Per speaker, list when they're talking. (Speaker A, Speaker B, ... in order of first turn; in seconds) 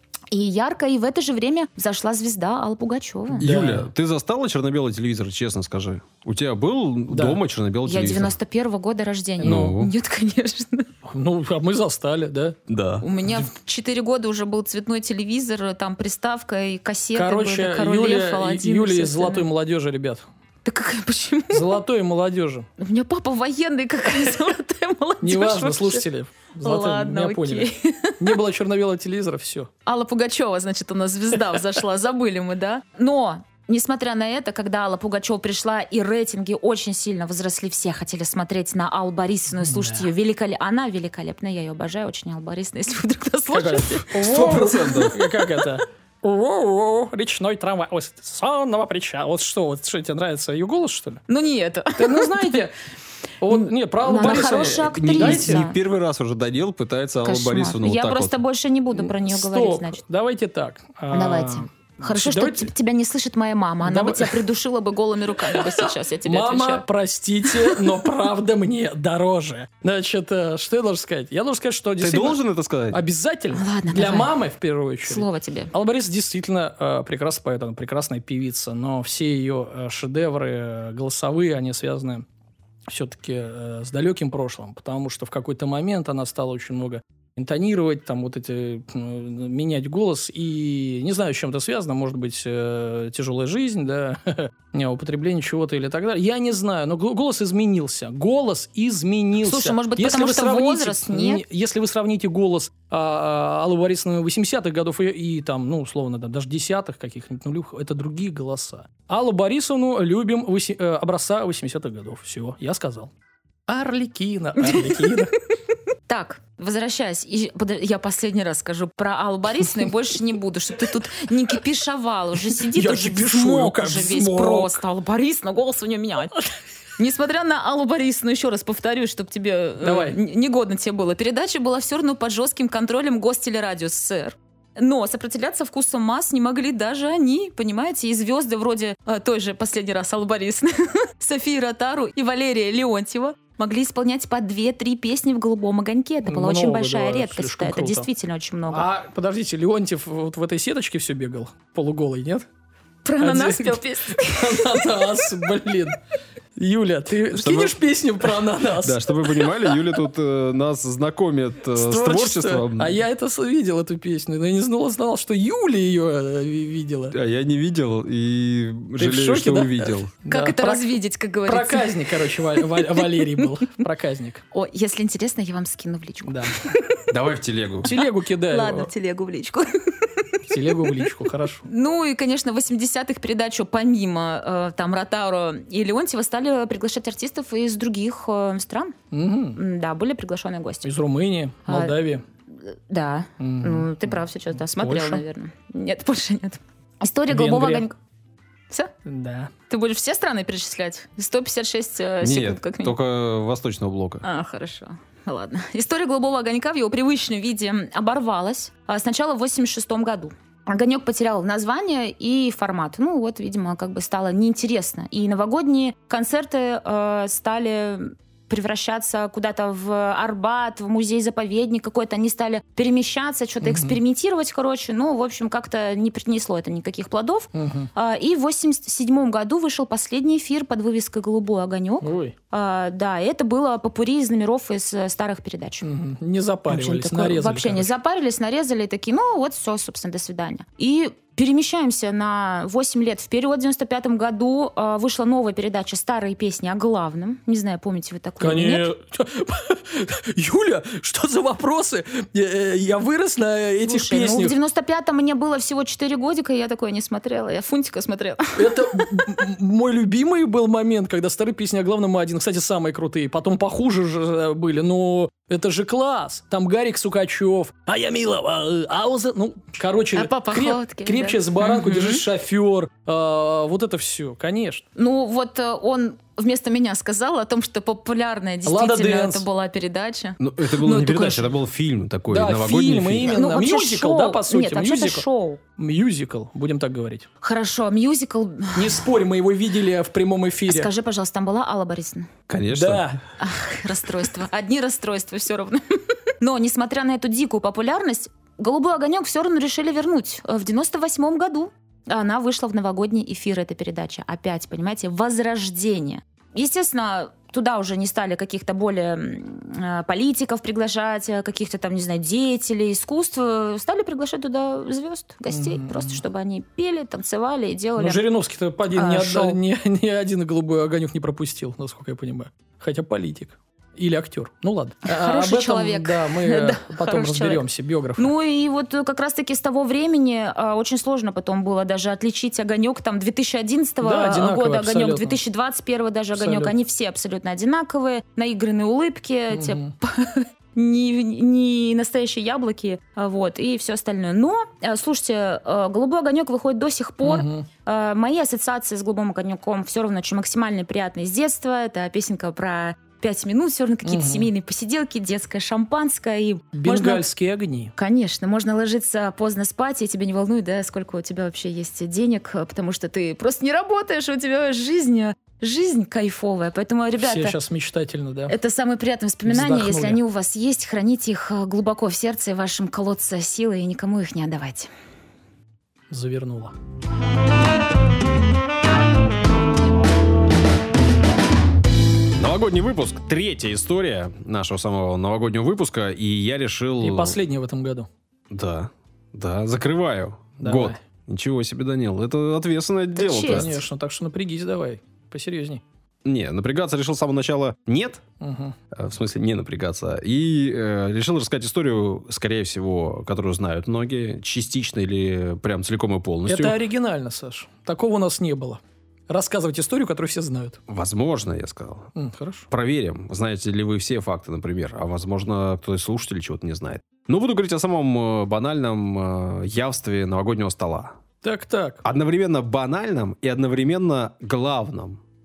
Speaker A: 0.3-3.5, 7.8-10.9, 13.0-19.5, 20.6-21.8, 22.8-26.0, 26.6-28.4, 29.9-44.1, 51.3-52.6, 53.5-55.8, 57.2-60.0, 61.1-66.8, 67.5-68.0, 73.5-74.3, 75.0-75.7, 99.4-101.4, 114.6-115.3, 116.1-126.4, 127.0-148.9, 153.0-155.3, 170.3-173.6, 174.5-176.9, 177.9-181.1, 181.6-188.9, 189.5-190.9, 191.7-192.0, 192.6-197.9, 199.7-202.9, 204.2-235.9, 236.7-248.9, 253.8-259.3, 270.1-272.2, 274.9-281.5, 283.3-285.6, 287.4-289.0, 290.7-292.3, 293.4-318.2, 318.9-319.6, 325.1-327.6, 328.2-357.3, 357.9-367.5, 368.5-374.9, 393.1-393.8
Speaker B: 3.4-8.3, 9.4-9.9, 12.7-13.1, 44.2-45.2, 54.2-58.4, 72.0-73.0, 157.3-157.8, 158.8-163.0, 167.1-170.1, 177.1-177.9, 202.2-204.2, 280.4-283.4, 292.5-293.1, 382.4-387.4, 388.5-393.7, 396.2-398.2, 398.9-406.8, 410.9-412.1, 412.7-421.2, 422.0-425.2
Speaker C: 3.4-3.9, 7.1-7.4, 9.4-9.8, 11.1-12.6, 17.1-20.2, 21.5-22.6, 25.2-27.7, 28.2-29.7, 39.6-40.1, 43.5-51.2, 52.0-52.8, 53.4-55.6, 59.0-62.7, 63.8-64.4, 65.4-72.4, 72.9-82.2, 82.9-113.1, 113.7-115.3, 122.7-124.8, 129.8-130.2, 146.2-148.1, 148.7-152.4, 153.2-156.0, 156.6-159.5, 161.7-167.1, 169.0-170.9, 171.4-174.4, 176.2-176.6, 177.8-178.9, 180.5-181.6, 189.1-189.6, 190.8-192.2, 193.4-194.2, 194.8-195.2, 197.3-197.8, 199.1-199.5, 223.6-223.9, 227.5-227.9, 232.0-232.3, 235.8-237.9, 248.4-254.5, 258.6-274.8, 278.6-279.4, 282.3-285.2, 285.8-287.3, 288.7-290.9, 292.7-293.2, 315.5-316.2, 318.0-328.3, 334.0-335.4, 336.3-336.7, 339.5-339.9, 347.2-347.7, 354.0-354.5, 356.7-357.9, 367.2-368.5, 369.4-370.2, 376.1-376.7, 387.0-388.1, 390.6-391.0, 393.5-395.8, 398.4-398.7, 406.5-410.8, 412.1-412.7, 421.4-422.0